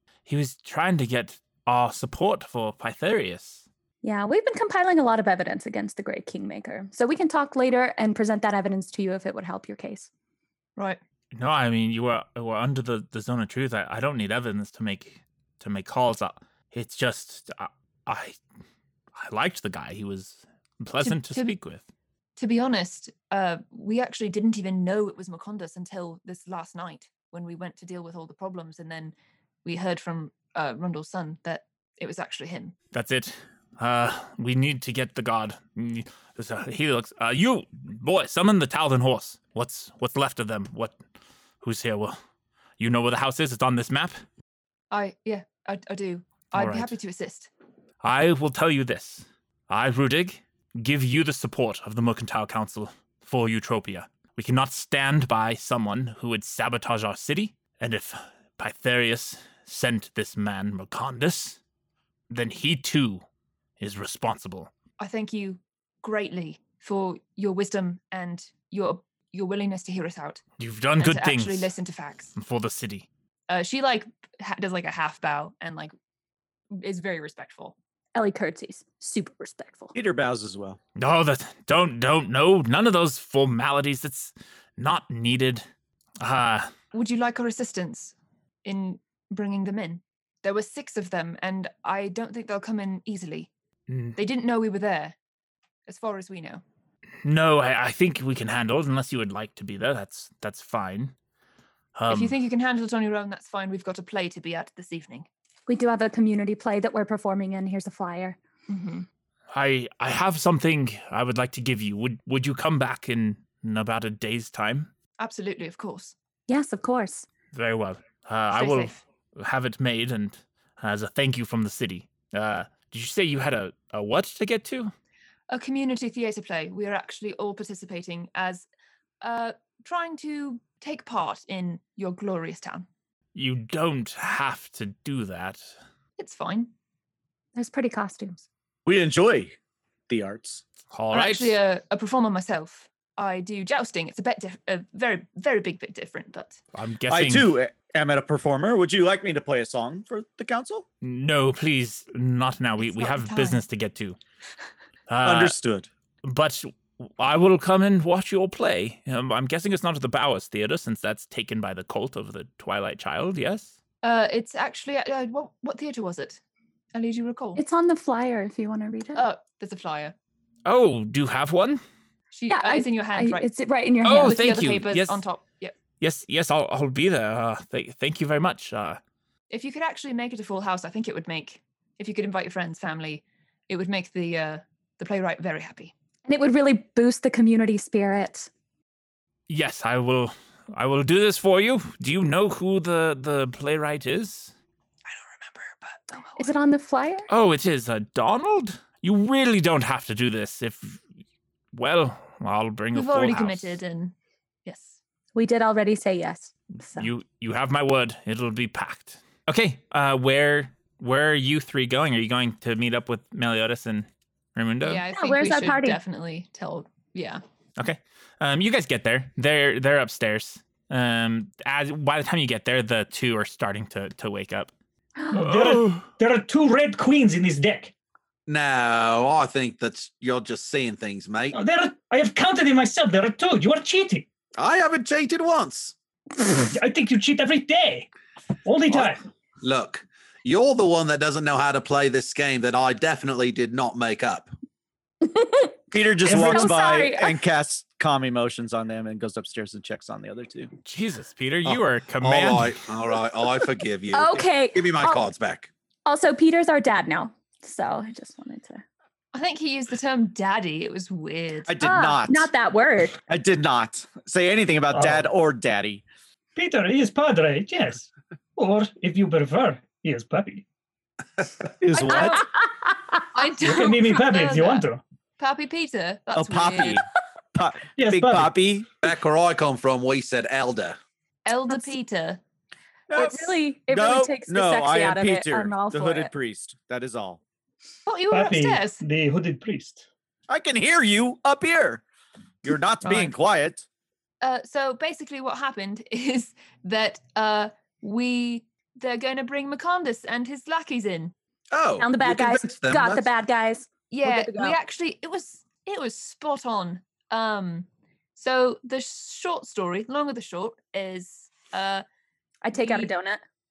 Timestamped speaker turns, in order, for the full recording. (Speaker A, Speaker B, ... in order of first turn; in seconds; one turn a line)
Speaker A: 0.3-3.6
Speaker B: 4.0-10.1
Speaker A: 11.3-18.4
Speaker A: 19.1-21.8
Speaker C: 21.0-21.5
Speaker C: 22.4-29.1
Speaker C: 29.6-32.7
Speaker A: 32.9-41.0
Speaker A: 41.6-42.2
Speaker A: 42.8-44.2
Speaker C: 44.9-47.5
Speaker A: 46.5-46.9
Speaker A: 48.0-61.6
Speaker A: 62.3-63.2
Speaker A: 63.8-64.7
Speaker C: 65.0-70.4
Speaker A: 70.6-71.7
Speaker C: 71.0-72.3
Speaker A: 72.3-73.1
Speaker C: 73.5-75.9
Speaker C: 76.7-77.7
Speaker B: 78.1-79.9
Speaker D: 79.9-80.8
Speaker A: 81.0-85.6
Speaker A: 86.2-86.7
Speaker C: 86.9-93.5
Speaker A: 93.9-94.2
Speaker C: 94.2-95.1
Speaker C: 95.9-96.6
Speaker A: 97.2-101.1
Speaker A: 102.0-102.3
Speaker C: 102.1-105.3
Speaker B: 105.7-108.4
Speaker C: 108.7-109.1
Speaker A: 109.5-114.9
Speaker C: 115.2-116.1
Speaker B: 116.5-117.2
Speaker A: 117.5-124.9
Speaker C: 118.5-119.0
Speaker C: 125.5-128.7
Speaker C: 129.2-132.9
Speaker A: 133.3-135.7
Speaker C: 136.2-136.7
Speaker B: 137.6-138.4
Speaker D: 138.8-139.5
Speaker D: 140.1-140.6
Speaker A: 140.9-141.6
Speaker C: 141.1-146.6
Speaker A: 146.7-147.5
Speaker D: 147.1-150.8
Speaker A: 151.0-154.2
Speaker C: 152.8-153.6
Speaker A: 155.1-155.6
Speaker D: 155.2-155.9
Speaker A: 156.2-163.7
Speaker C: 164.0-166.4
Speaker C: 166.9-167.6
Speaker B: 167.6-169.2
Speaker C: 169.1-170.1
Speaker A: 170.7-171.8
Speaker C: 172.3-173.5
Speaker B: 172.5-174.4
Speaker A: 174.0-175.2
Speaker C: 174.0-175.7
Speaker A: 176.0-179.0
Speaker C: 179.5-185.9
Speaker B: 186.2-188.5
Speaker A: 189.5-194.5
Speaker C: 195.1-196.5
Speaker B: 196.4-197.3
Speaker A: 197.3-201.0
Speaker A: 201.7-203.8
Speaker C: 202.9-205.0
Speaker B: 205.3-207.1
Speaker A: 206.9-215.0
Speaker C: 214.8-217.4
Speaker B: 215.1-216.0
Speaker A: 217.8-224.7
Speaker B: 225.2-225.4
Speaker E: 225.3-227.9
Speaker A: 225.4-226.1
Speaker F: 228.5-231.6
Speaker E: 231.5-234.3
Speaker F: 234.6-235.9
Speaker E: 236.6-238.1
Speaker E: 238.6-239.2
Speaker F: 238.9-244.5
Speaker B: 245.2-245.7
Speaker D: 245.9-250.7
Speaker E: 246.2-246.8
Speaker B: 246.3-247.4
Speaker A: 250.8-252.8
Speaker F: 251.7-255.7
Speaker B: 254.1-255.2
Speaker B: 256.1-258.8
Speaker C: 259.3-261.9
Speaker D: 261.7-262.5
Speaker B: 261.8-263.2
Speaker D: 263.3-266.0
Speaker E: 264.9-265.3
Speaker E: 266.6-270.6
Speaker D: 271.8-272.4
Speaker C: 272.0-272.4
Speaker B: 272.1-272.9
Speaker C: 273.3-274.9
Speaker E: 273.6-275.0
Speaker C: 275.4-277.0
Speaker D: 276.3-278.9
Speaker E: 277.9-278.6
Speaker F: 279.0-281.0
Speaker C: 281.4-282.4
Speaker B: 281.7-281.9
Speaker D: 283.1-287.4
Speaker B: 283.1-286.3
Speaker C: 288.1-289.0
Speaker E: 288.3-290.0
Speaker D: 290.5-292.0
Speaker D: 292.6-293.8
Speaker C: 294.4-301.3
Speaker F: 301.7-303.3
Speaker B: 302.0-304.8
Speaker C: 304.1-312.0
Speaker B: 312.6-313.4
Speaker C: 312.7-313.1